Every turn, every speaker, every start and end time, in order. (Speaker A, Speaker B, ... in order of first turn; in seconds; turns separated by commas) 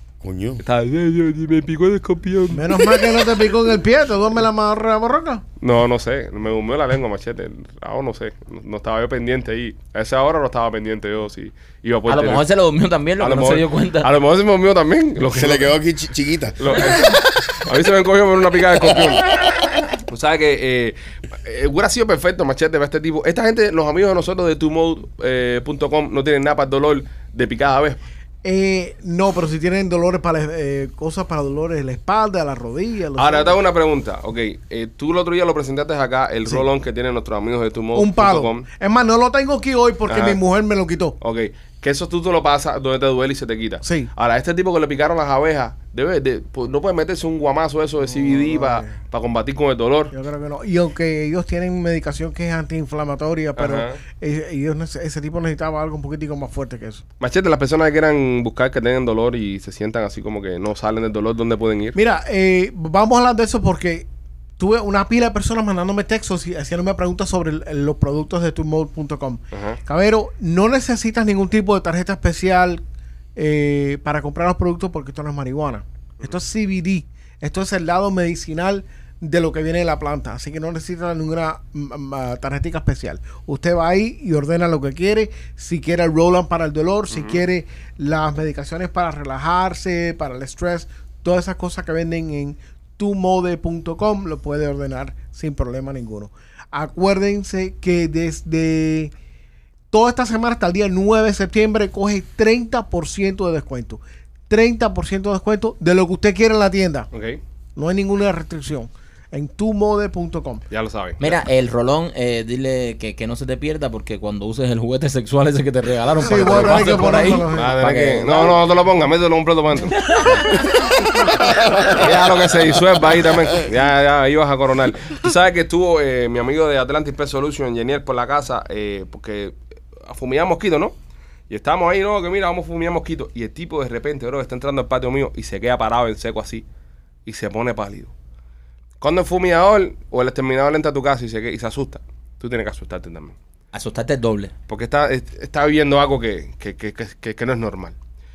Speaker A: 0.2-0.6, Speaker B: 0.6-3.3, Speaker C: 2.5-5.4, Speaker B: 5.6-12.4, Speaker D: 12.1-14.1, Speaker B: 13.2-15.7, Speaker A: 15.3-17.1, Speaker B: 16.6-19.3, Speaker A: 18.9-19.2, Speaker B: 19.9-28.0, Speaker C: 28.4-33.6, Speaker B: 33.2-38.7, Speaker C: 37.9-41.2, Speaker B: 40.1-40.4, Speaker B: 41.2-50.1, Speaker C: 43.8-44.1, Speaker C: 48.0-49.0, Speaker C: 50.1-57.0, Speaker B: 53.6-54.0, Speaker B: 57.2-62.0, Speaker C: 62.0-64.1, Speaker C: 64.6-72.8, Speaker B: 69.5-69.8, Speaker C: 73.4-99.1, Speaker B: 87.1-87.4, Speaker C: 99.9-107.1, Speaker B: 107.1-107.4, Speaker C: 107.8-110.7, Speaker B: 110.7-111.4, Speaker D: 111.2-118.6, Speaker C: 116.2-117.8, Speaker B: 116.3-120.0, Speaker D: 119.9-120.5, Speaker A: 121.5-122.2, Speaker B: 121.8-130.9, Speaker B: 131.5-136.7, Speaker B: 137.3-138.1, Speaker B: 139.0-143.4, Speaker D: 143.7-144.5, Speaker B: 144.7-147.9